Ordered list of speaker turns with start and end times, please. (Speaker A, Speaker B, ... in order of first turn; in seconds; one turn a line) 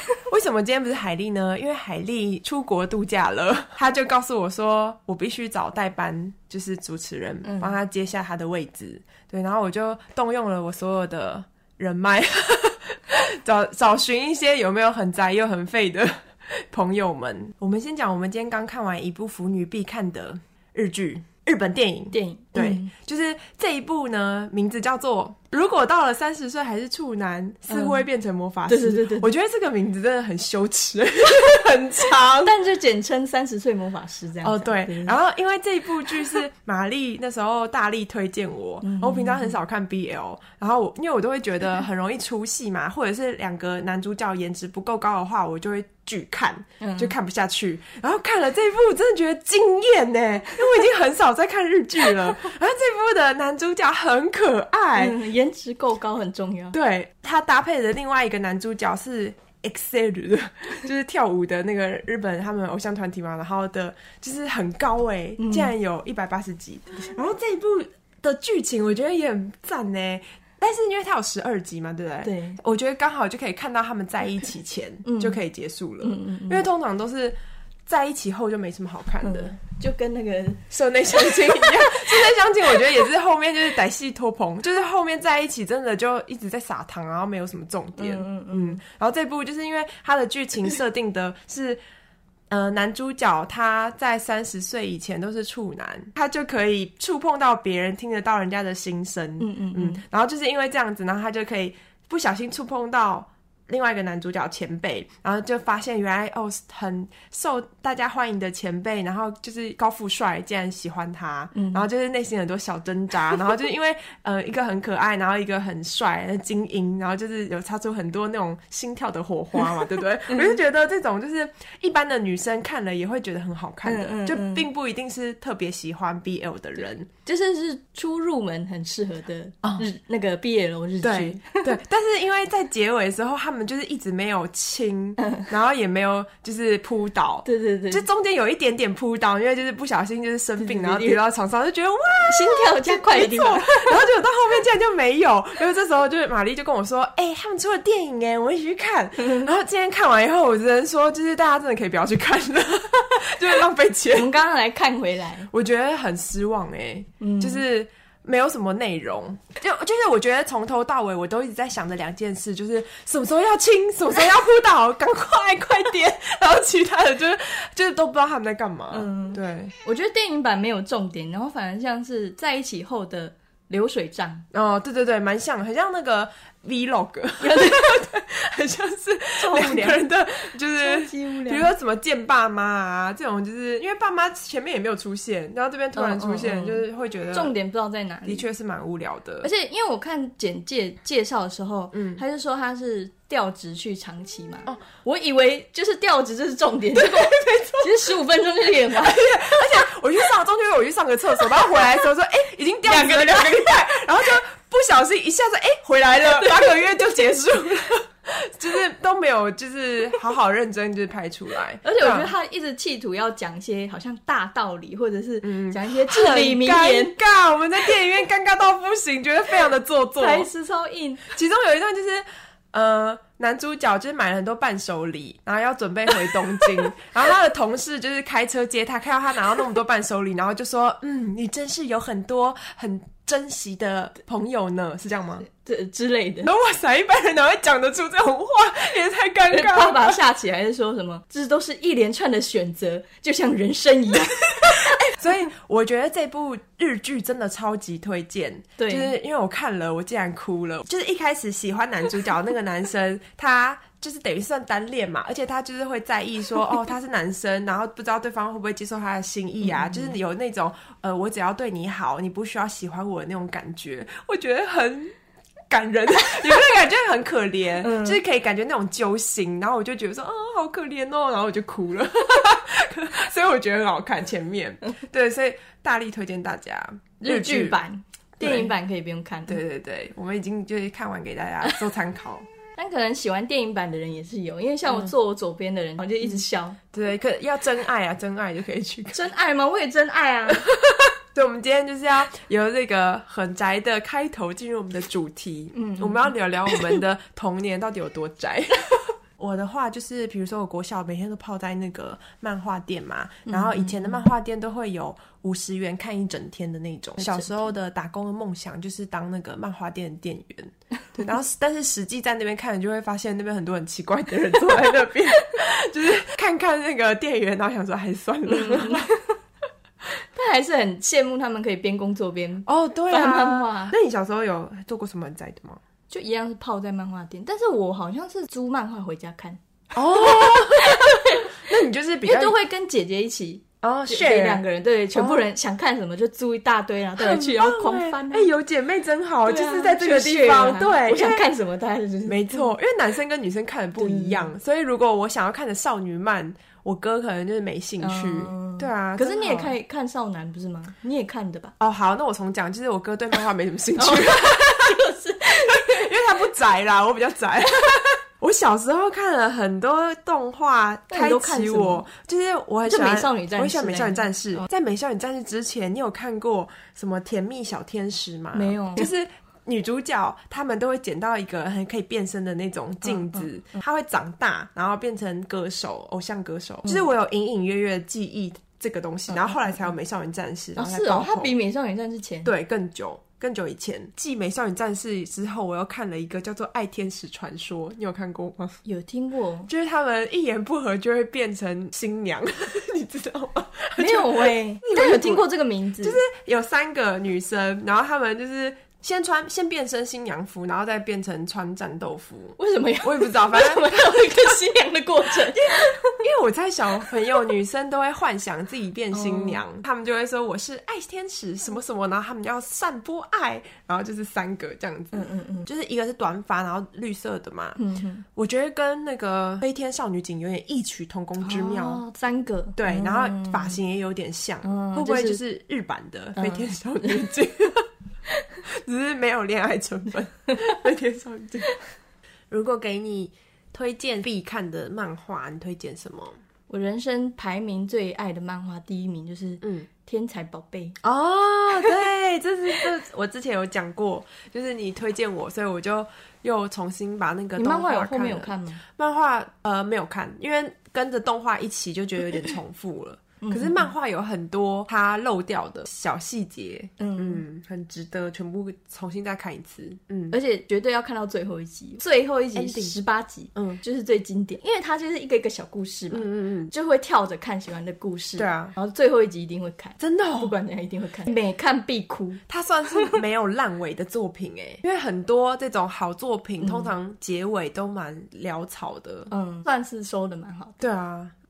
Speaker A: 0.3-32.6
Speaker B: 7.4-7.8
Speaker B: 22.1-22.9
Speaker B: 27.7-28.0
Speaker B: 28.7-29.3
Speaker B: 32.4-35.2
Speaker A: 34.4-55.2
Speaker B: 38.8-39.6
Speaker B: 46.8-47.1
Speaker B: 55.0-56.7
Speaker A: 56.7-79.6
Speaker B: 65.4-65.7
Speaker B: 72.2-72.6
Speaker B: 75.0-75.4
Speaker B: 76.0-76.6
Speaker B: 79.2-82.1
Speaker A: 80.7-91.8
Speaker B: 88.0-88.8
Speaker A: 92.5-127.1
Speaker B: 99.4-100.0
Speaker B: 111.5-111.8
Speaker B: 123.8-124.7
Speaker B: 127.2-131.7
Speaker A: 129.6-129.9
Speaker A: 131.0-154.4
Speaker B: 137.4-138.0
Speaker B: 140.6-141.2
Speaker B: 142.3-144.0
Speaker B: 149.2-149.5
Speaker B: 154.1-155.5
Speaker A: 155.5-169.7
Speaker B: 157.2-157.6
Speaker B: 168.9-174.4
Speaker A: 174.5-187.5
Speaker B: 177.4-177.9
Speaker B: 179.4-180.0
Speaker B: 180.7-181.7
Speaker B: 185.9-188.4
Speaker A: 188.2-189.5
Speaker B: 189.4-199.6
Speaker A: 191.9-192.2
Speaker A: 196.9-198.1
Speaker A: 198.9-212.3
Speaker B: 202.8-204.0
Speaker B: 206.2-206.8
Speaker B: 211.8-217.2
Speaker A: 215.4-220.5
Speaker B: 220.2-221.2
Speaker A: 221.3-235.4
Speaker B: 235.5-236.5
Speaker A: 236.4-240.2
Speaker B: 239.5-245.0
Speaker A: 245.1-265.1
Speaker B: 248.8-249.1
Speaker B: 259.6-260.1
Speaker A: 265.7-277.8
Speaker B: 267.8-268.2
Speaker B: 277.2-279.6
Speaker A: 278.4-278.7
Speaker A: 279.5-282.4
Speaker B: 282.8-286.8
Speaker A: 286.2-289.2
Speaker B: 289.1-290.6
Speaker A: 290.5-319.1
Speaker B: 295.7-297.0
Speaker B: 303.5-304.2
Speaker B: 307.2-307.6
Speaker B: 318.5-319.4
Speaker B: 320.4-323.9
Speaker A: 322.6-325.8
Speaker B: 326.1-329.6
Speaker A: 329.9-332.6
Speaker B: 330.1-331.6
Speaker B: 332.2-338.5
Speaker A: 333.8-334.6
Speaker A: 335.1-335.4
Speaker A: 337.2-341.5
Speaker B: 339.4-342.7
Speaker A: 342.2-349.7
Speaker B: 344.0-344.5
Speaker B: 348.0-351.7
Speaker A: 351.8-355.0
Speaker B: 353.9-356.1
Speaker A: 355.5-381.5
Speaker B: 361.1-362.0
Speaker B: 362.9-364.6
Speaker B: 368.5-369.1
Speaker B: 373.0-373.4
Speaker B: 379.3-379.9
Speaker B: 380.8-382.5
Speaker A: 382.4-388.8
Speaker B: 388.8-389.7
Speaker A: 389.7-395.4
Speaker B: 394.0-396.2
Speaker A: 396.0-404.6
Speaker B: 402.6-406.2
Speaker A: 405.6-417.8
Speaker B: 409.1-409.6
Speaker B: 415.1-415.7
Speaker B: 417.8-418.2
Speaker A: 418.3-422.0
Speaker B: 421.4-423.8
Speaker A: 422.8-427.9
Speaker B: 424.6-425.4
Speaker B: 426.4-427.3
Speaker A: 428.8-431.7
Speaker A: 432.5-436.4
Speaker B: 436.7-440.9
Speaker A: 439.6-439.9
Speaker A: 441.0-460.4
Speaker B: 447.6-448.8
Speaker B: 453.4-453.9
Speaker B: 457.0-457.4
Speaker B: 460.3-473.2
Speaker A: 462.5-463.0
Speaker A: 463.6-463.8
Speaker A: 466.1-466.7
Speaker A: 468.4-468.7
Speaker A: 470.0-470.6
Speaker A: 472.5-479.3
Speaker B: 476.6-476.9
Speaker B: 479.3-480.8
Speaker A: 480.8-481.3